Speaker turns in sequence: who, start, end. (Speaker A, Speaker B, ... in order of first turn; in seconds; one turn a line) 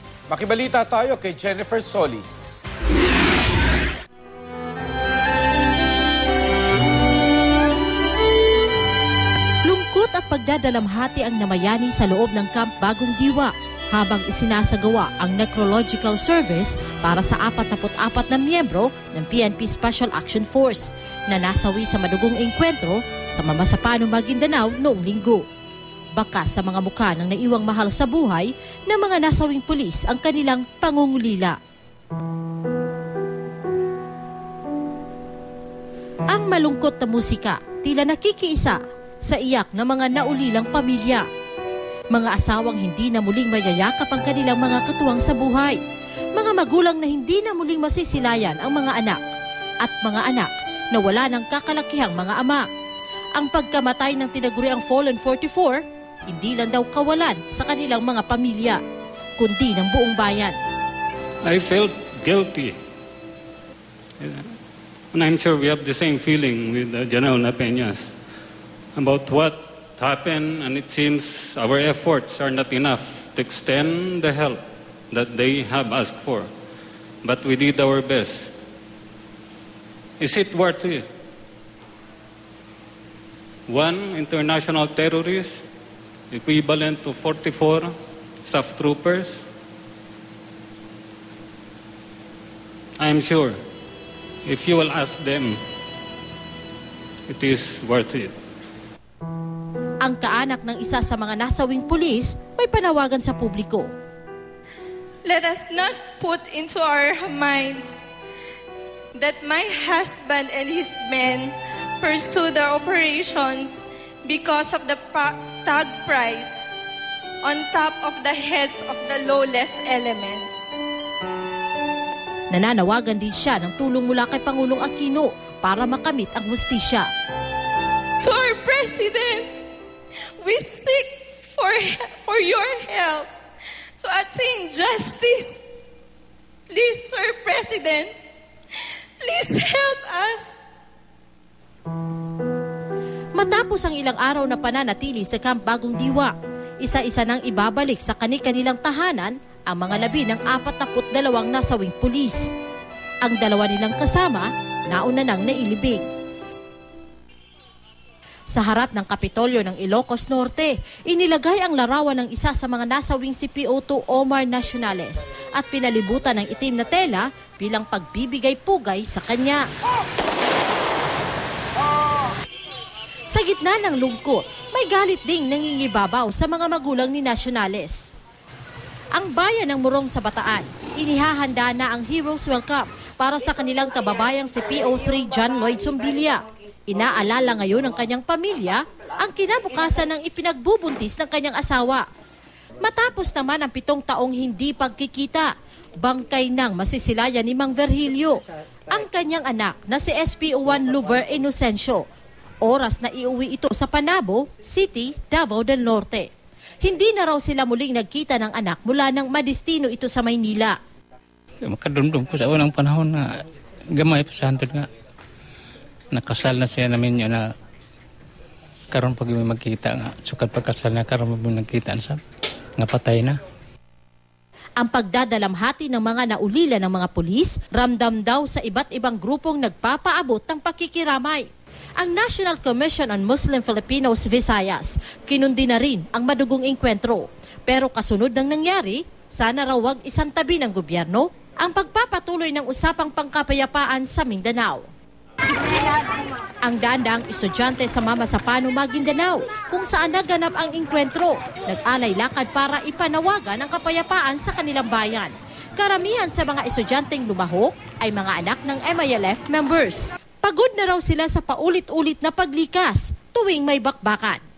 Speaker A: 0.3-2.6
Speaker B: 9.6-25.4
Speaker B: 26.1-31.6
Speaker B: 36.3-41.3
Speaker B: 42.1-45.8
Speaker B: 46.3-49.2
Speaker B: 49.8-52.7
Speaker B: 53.4-58.8
Speaker B: 59.4-60.6
Speaker C: 61.4-62.7
Speaker C: 64.2-64.5
Speaker C: 65.1-68.1
Speaker C: 68.9-76.5
Speaker C: 77.2-78.5
Speaker C: 80.2-81.0
Speaker C: 83.7-85.6
Speaker C: 86.3-87.9
Speaker C: 88.5-89.4
Speaker C: 93.0-93.6
Speaker C: 94.4-95.6
Speaker C: 97.3-98.3
Speaker B: 100.0-103.9
Speaker D: 105.2-108.0
Speaker D: 109.1-116.6
Speaker D: 117.4-120.7
Speaker B: 122.5-127.1
Speaker D: 128.2-129.6
Speaker D: 130.4-133.3
Speaker D: 134.0-135.6
Speaker D: 136.7-138.1
Speaker D: 139.2-140.6
Speaker B: 143.3-152.5
Speaker B: 153.2-156.1
Speaker B: 158.5-169.6
Speaker B: 173.3-178.1
Speaker B: 179.1-192.1
Speaker B: 192.8-202.1
Speaker B: 202.6-210.8
Speaker E: 211.7-213.4
Speaker E: 213.9-214.9
Speaker E: 216.1-217.5
Speaker E: 218.9-222.2
Speaker E: 222.8-223.4
Speaker B: 224.8-244.9
Speaker B: 246.6-264.4